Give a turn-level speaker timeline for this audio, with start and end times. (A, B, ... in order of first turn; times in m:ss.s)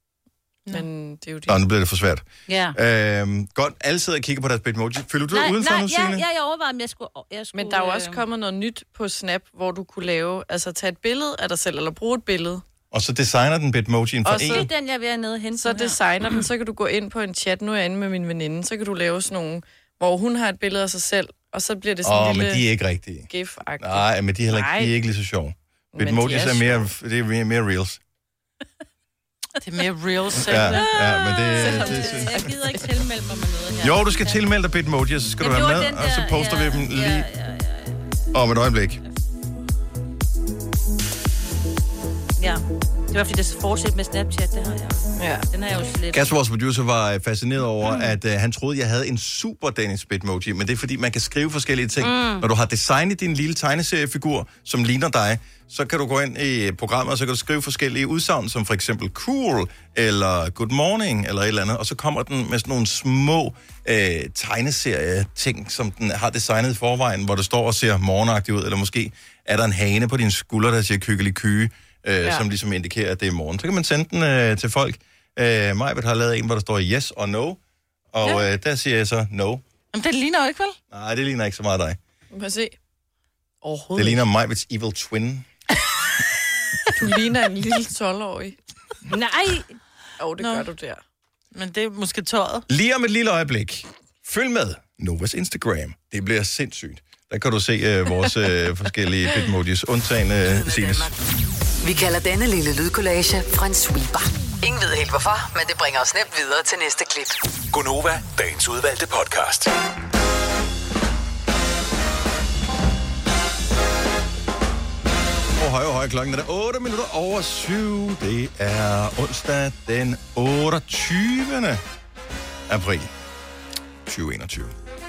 0:00.7-0:01.6 A
0:01.5-0:06.2 B
0:02.5-0:02.8 C
0:05.3-0:08.2 C
0:07.5-0:12.6 A
0:12.9-0:14.7 B
0:14.2-0:14.7 A
0:14.3-0:16.4 C
0:15.5-0:22.6 A
0:22.0-0:28.0 B
0:23.3-0:24.9 A
0:25.9-0:26.8 A
0:29.6-0:30.9 D
0:30.4-0:32.5 B
0:30.6-0:34.4 C
0:31.5-0:32.9 A
0:33.8-0:37.2 B
0:35.4-0:38.2 C
0:38.3-0:39.0 B
0:42.4-0:46.3 C
0:45.2-0:45.4 A
0:46.1-1:17.6 B
0:47.8-0:48.1 C
0:52.0-0:52.5 C
1:18.1-1:19.6 B
1:19.9-1:20.8 D
1:20.9-1:22.0 B
1:22.3-1:22.7 A
1:23.6-1:24.2 A
1:24.0-1:25.5 B
1:26.9-1:28.6 A
1:29.1-1:29.7 C
1:30.2-1:31.0 A
1:30.4-1:30.7 D
1:31.5-1:32.6 D
1:32.7-1:41.1 B
1:40.4-1:41.1 E
1:41.8-1:47.4 E
1:47.7-1:49.7 F
1:55.6-2:01.8 B
2:02.7-2:03.1 B
2:04.0-2:04.7 B